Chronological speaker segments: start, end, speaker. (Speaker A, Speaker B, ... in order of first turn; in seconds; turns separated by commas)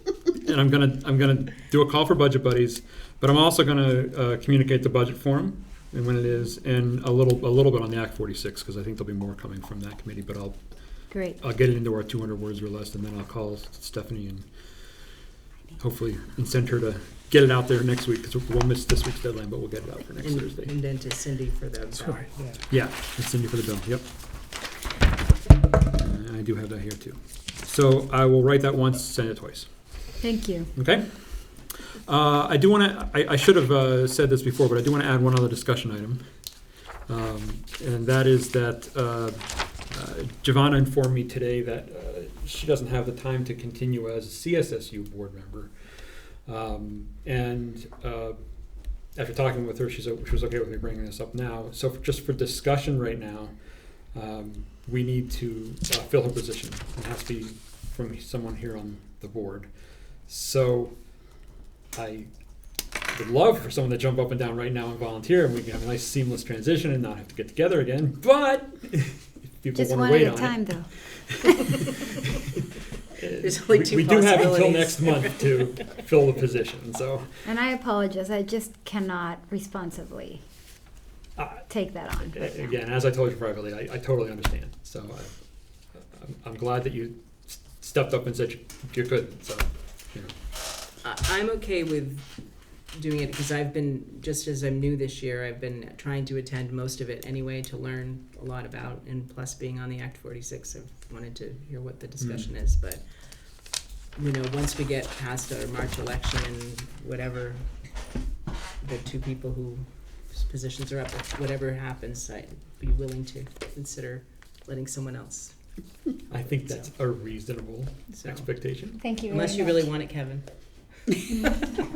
Speaker A: 0.3-10.6, Speaker B: 11.1-11.4, Speaker A: 11.4-15.0, Speaker A: 15.8-20.7, Speaker C: 20.2-22.3, Speaker A: 22.7-24.1, Speaker A: 25.9-29.7, Speaker B: 30.2-30.7, Speaker A: 30.7-36.2, Speaker A: 37.1-48.4, Speaker A: 49.1-53.5, Speaker A: 54.1-59.7, Speaker A: 60.2-60.9, Speaker A: 61.9-62.3, Speaker A: 63.1-72.0, Speaker B: 69.7-70.9, Speaker A: 73.2-77.3, Speaker C: 73.4-75.7, Speaker B: 77.5-80.4, Speaker A: 81.4-81.7, Speaker B: 81.7-82.7, Speaker A: 82.2-85.3, Speaker A: 85.9-90.3, Speaker C: 91.0-92.2, Speaker C: 92.9-103.0, Speaker A: 102.2-102.5, Speaker C: 104.2-107.6, Speaker C: 108.8-115.5, Speaker C: 116.3-116.9, Speaker A: 116.3-119.0, Speaker C: 118.1-118.5, Speaker B: 119.0-119.9, Speaker C: 119.3-120.4